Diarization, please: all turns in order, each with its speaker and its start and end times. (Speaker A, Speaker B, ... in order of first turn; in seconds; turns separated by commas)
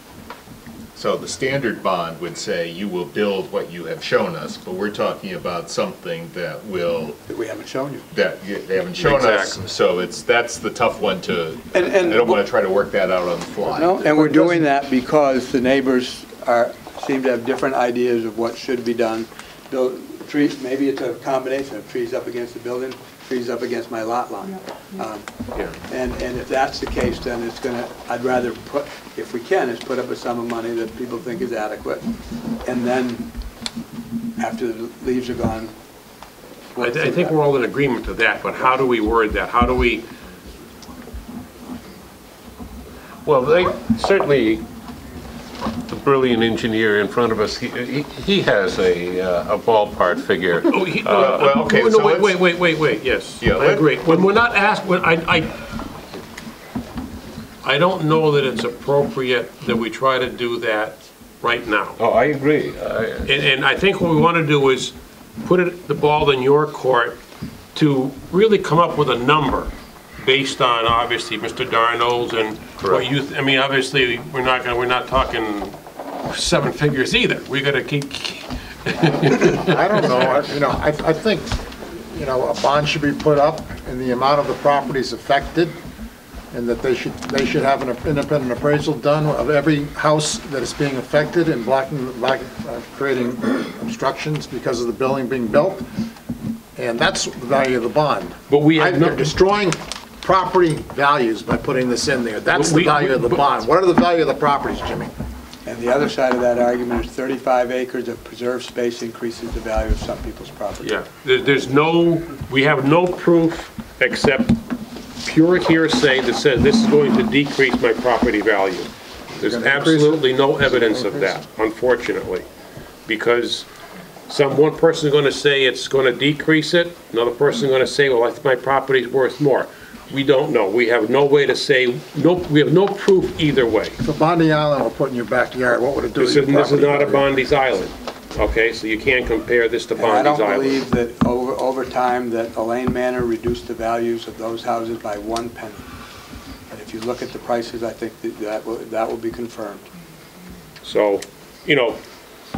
Speaker A: 0.9-7.2, Speaker B: 7.3-8.0, Speaker A: 8.1-14.4, Speaker C: 8.9-9.6, Speaker B: 11.7-12.4, Speaker B: 13.7-32.1, Speaker C: 14.2-14.6, Speaker C: 25.5-25.8, Speaker B: 32.6-33.3, Speaker B: 34.4-35.7, Speaker B: 36.7-37.3, Speaker C: 36.8-40.0, Speaker D: 43.2-44.6, Speaker D: 45.9-51.4, Speaker C: 50.6-55.6, Speaker A: 51.0-52.4, Speaker A: 53.4-54.3, Speaker C: 57.6-62.0, Speaker D: 62.0-63.3, Speaker C: 63.2-67.2, Speaker C: 67.7-80.5, Speaker D: 72.8-73.1, Speaker E: 79.2-85.8, Speaker E: 86.5-95.9, Speaker E: 96.8-105.1, Speaker C: 98.5-99.4, Speaker C: 102.5-103.5, Speaker B: 105.7-110.9, Speaker C: 110.8-114.6, Speaker C: 115.2-122.5, Speaker E: 119.4-121.4, Speaker C: 123.0-123.7, Speaker C: 124.3-134.0, Speaker E: 134.0-137.4, Speaker C: 136.1-140.8, Speaker B: 139.9-145.9, Speaker B: 146.7-149.9, Speaker C: 150.8-152.0